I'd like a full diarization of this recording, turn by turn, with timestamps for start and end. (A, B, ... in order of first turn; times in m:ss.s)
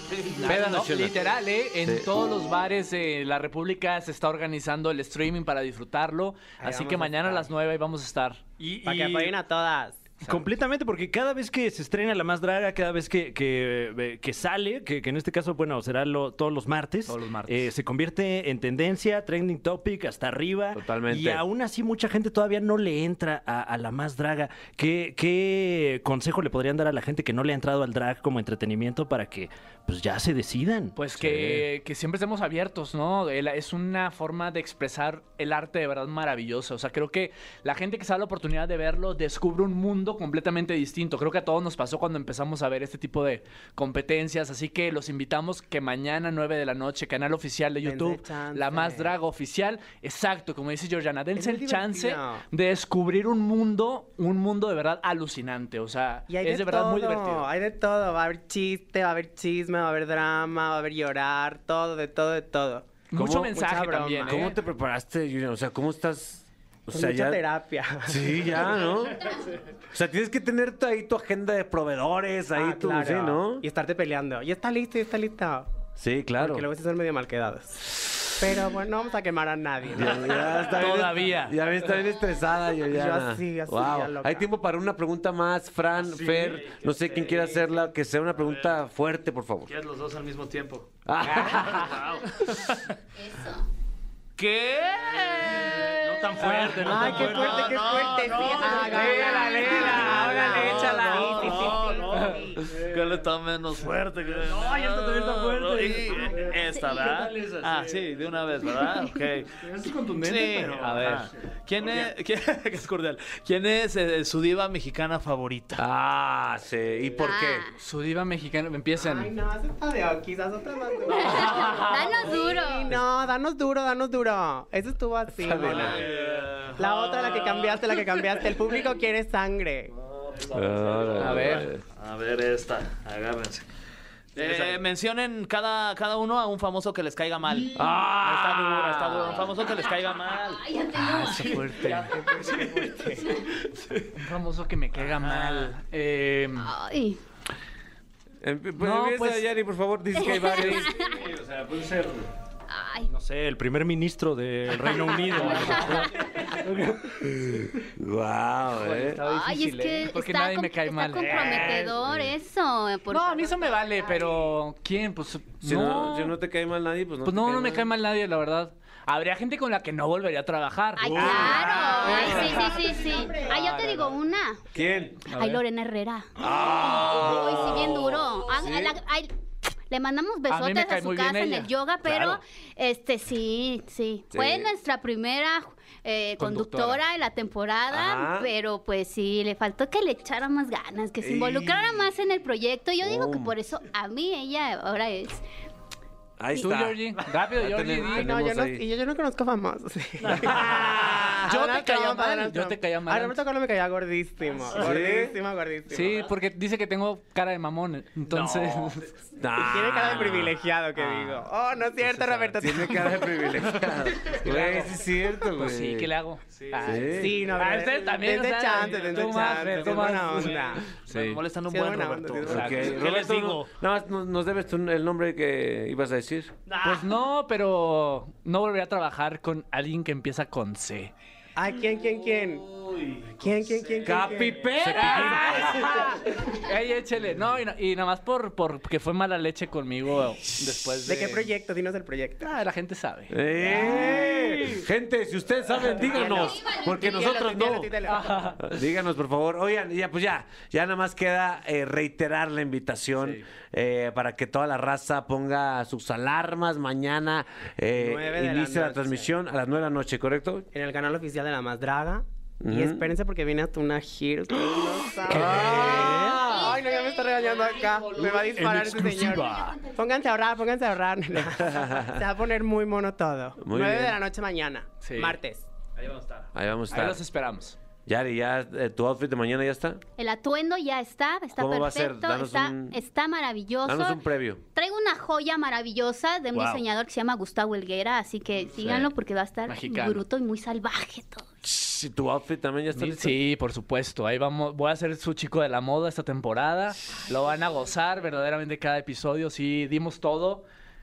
0:00.2-0:00.6 A
0:00.4-0:08.4 B
0:00.4-0:02.1 C
0:06.6-0:07.5 D
0:08.6-0:09.4 E
0:08.8-0:10.1 D
0:10.2-0:31.6 E
0:17.1-0:17.7 B
0:20.7-0:21.4 C
0:31.0-0:57.4 B
0:47.8-0:49.1 D
0:51.4-0:52.4 D
0:56.3-1:02.9 D
1:03.1-1:04.6 B
1:03.1-1:03.6 C
1:03.5-1:04.5 D
1:04.2-1:07.4 C
1:06.9-1:08.8 D
1:08.0-1:13.6 C
1:12.5-1:15.7 D
1:16.0-1:16.6 C
1:16.4-1:20.6 D
1:19.9-1:29.7 C
1:20.6-1:21.5 A
1:22.8-1:24.5 D
1:26.0-1:27.6 A
1:29.7-1:30.9 A
1:31.0-1:32.0 C
1:31.6-1:32.5 A
1:33.2-1:33.7 F
1:34.4-1:49.6 A
1:35.8-1:37.6 E
1:36.5-1:37.1 B
1:36.8-1:42.6 D
1:38.7-1:41.7 B
1:39.0-1:39.6 F
1:44.4-1:48.1 E
1:46.7-1:47.1 F
1:49.6-1:51.3 E
1:50.2-1:55.8 A
1:50.8-1:51.3 B
1:55.8-1:57.6 C
1:57.2-1:57.8 F
1:57.8-1:59.3 B
1:59.0-2:06.0 D
2:01.1-2:02.9 F
2:01.5-2:01.9 B
2:05.4-2:06.0 C
2:05.6-2:07.7 A
2:06.8-2:09.9 D
2:10.4-2:13.6 A
2:10.5-2:11.8 C
2:11.2-2:11.7 B
2:14.4-2:20.6 A
2:17.7-2:19.5 C
2:20.4-2:21.7 F
2:21.0-2:22.1 B
2:21.9-2:23.2 D
2:22.3-2:23.2 E
2:23.2-2:23.5 F
2:23.7-2:24.1 E
2:24.1-2:26.7 B
2:25.2-2:25.7 A
2:26.6-2:27.2 F
2:28.4-2:31.0 C
2:28.8-2:29.4 B
2:30.2-2:31.3 F
2:30.2-2:30.9 B
2:31.4-2:32.2 E
2:32.7-2:33.1 F
2:33.1-2:37.0 E
2:35.1-2:36.5 F
2:35.3-2:36.0 B
2:37.1-2:39.2 C
2:38.7-2:41.9 B
2:39.2-2:44.3 F
2:43.1-2:46.4 B
2:45.6-2:47.9 C
2:47.2-2:54.1 B
2:51.0-2:54.6 F
2:51.0-2:52.6 C
2:54.7-2:55.2 C
2:55.3-2:55.6 B
2:55.3-2:59.3 F
2:56.4-2:59.0 C
2:59.9-3:15.4 F
3:00.5-3:02.4 B
3:04.3-3:04.7 C
3:06.4-3:07.0 B
3:07.9-3:08.5 C
3:11.2-3:12.0 C
3:13.0-3:13.5 C
3:16.4-3:18.8 C
3:16.5-3:18.3 B
3:18.0-3:26.3 D
3:20.3-3:23.4 B
3:20.4-3:21.4 C
3:24.7-3:25.4 C
3:25.9-3:29.1 B
3:28.3-3:28.9 A
3:29.4-3:30.6 C
3:29.6-3:33.5 D
3:32.0-3:32.6 B
3:32.6-3:36.1 C
3:35.4-3:41.4 B
3:36.5-3:37.0 A
3:36.8-3:37.5 C
3:37.2-3:40.8 D
3:39.0-3:39.3 A
3:39.1-3:40.5 C
3:40.6-3:43.7 A
3:41.7-3:42.8 D
3:42.4-3:46.5 C
3:42.5-3:42.9 B
3:46.7-3:47.1 A
3:46.8-3:51.1 B
3:51.6-3:52.6 D
3:53.4-3:55.3 D
3:54.0-3:56.0 C
3:54.9-4:01.5 B
4:01.0-4:02.5 D
4:02.4-4:04.8 B
4:03.3-4:07.9 C
4:03.6-4:04.4 D
4:06.0-4:08.5 D
4:08.0-4:08.6 B
4:08.6-4:20.7 C
4:18.0-4:19.3 D
4:20.7-4:35.6 D
4:22.6-4:23.1 C
4:25.3-4:26.8 C
4:25.3-4:26.4 E
4:25.8-4:28.0 F
4:28.2-4:29.8 E
4:31.6-4:32.2 C
4:33.6-4:34.2 C
4:35.0-4:35.4 B
4:36.0-4:36.5 A
4:36.5-4:37.2 C
4:36.9-4:37.8 B
4:38.0-4:40.0 C
4:40.2-4:44.2 F
4:41.6-4:43.0 C
4:43.8-4:44.6 C
4:44.7-4:51.5 F
4:46.5-4:46.8 E
4:48.8-4:49.1 C
4:49.6-4:50.2 B
4:51.6-4:53.4 C
4:52.9-5:00.6 B